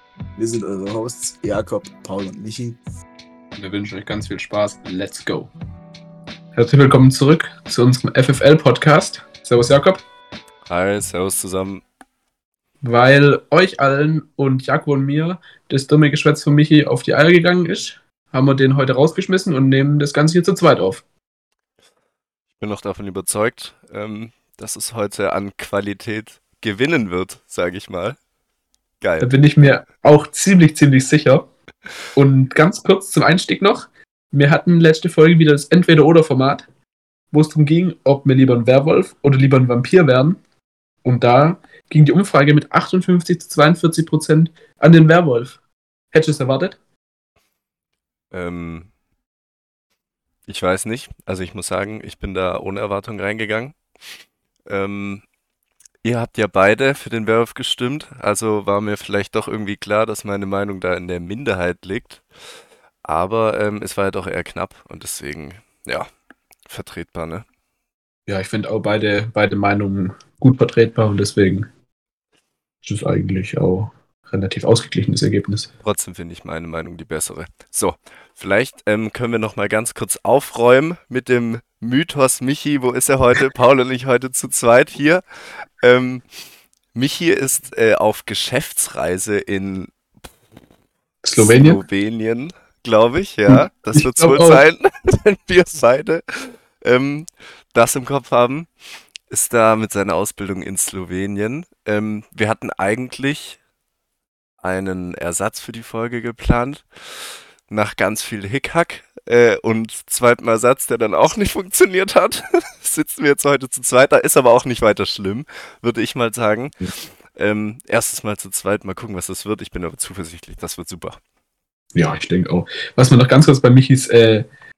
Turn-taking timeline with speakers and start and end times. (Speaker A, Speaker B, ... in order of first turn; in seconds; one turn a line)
Speaker A: 0.4-2.8
Speaker B: 3.6-5.5
Speaker B: 6.5-10.0
Speaker C: 10.7-11.8
Speaker B: 12.8-21.0
Speaker C: 22.6-28.2
Speaker C: 29.0-29.3
Speaker B: 29.2-31.5
Speaker B: 32.1-36.6
Speaker B: 37.3-40.4
Speaker B: 41.0-45.6
Speaker B: 46.1-46.8
Speaker C: 48.3-48.9
Speaker C: 50.5-53.8
Speaker C: 54.7-55.2
Speaker C: 56.0-62.2
Speaker C: 63.0-66.1
Speaker C: 66.7-67.4
Speaker B: 68.3-71.7
Speaker B: 72.8-75.7
Speaker C: 75.8-85.2
Speaker C: 85.8-86.2
Speaker C: 86.9-89.9
Speaker B: 91.2-91.8
Speaker C: 91.4-98.7
Speaker B: 93.5-94.6
Speaker C: 99.3-103.6
Speaker C: 104.6-116.8
Speaker C: 117.3-121.2
Speaker B: 121.9-124.5